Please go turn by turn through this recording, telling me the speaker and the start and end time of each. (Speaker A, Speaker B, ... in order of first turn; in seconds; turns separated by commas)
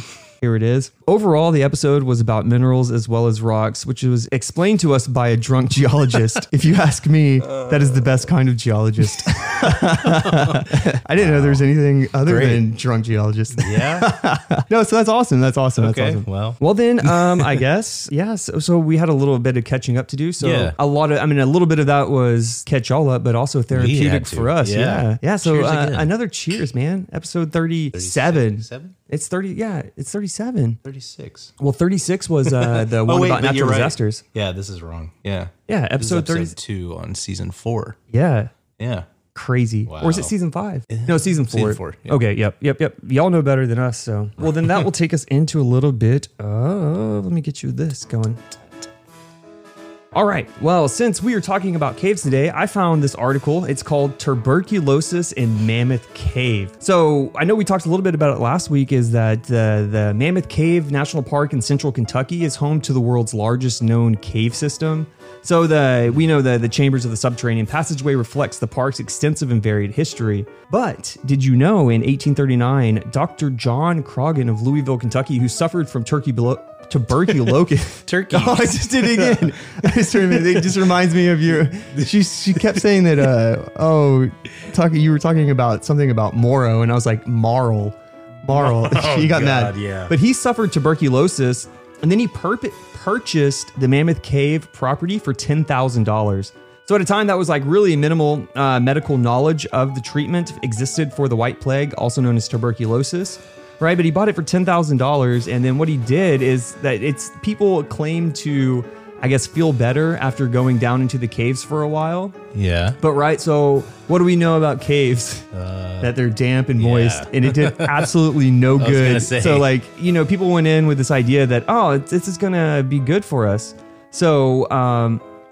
Speaker A: 0.4-30.8, Speaker B: 9.6-11.7, Speaker B: 12.2-12.7, Speaker B: 13.6-14.1, Speaker B: 15.8-17.6, Speaker B: 20.4-20.8, Speaker B: 23.7-26.1, Speaker B: 27.9-28.9, Speaker B: 30.8-31.5, Speaker A: 31.6-34.2, Speaker B: 32.5-38.0, Speaker A: 35.7-36.5, Speaker A: 38.1-38.5, Speaker B: 38.8-39.1, Speaker A: 39.3-48.4, Speaker B: 39.9-40.3, Speaker B: 40.9-42.2, Speaker A: 50.1-112.4, Speaker B: 78.0-80.7, Speaker B: 81.9-82.8, Speaker B: 88.5-90.1, Speaker B: 112.5-113.0, Speaker A: 113.0-115.5, Speaker B: 115.5-116.1, Speaker A: 116.0-125.2, Speaker B: 116.8-118.1, Speaker B: 118.8-119.7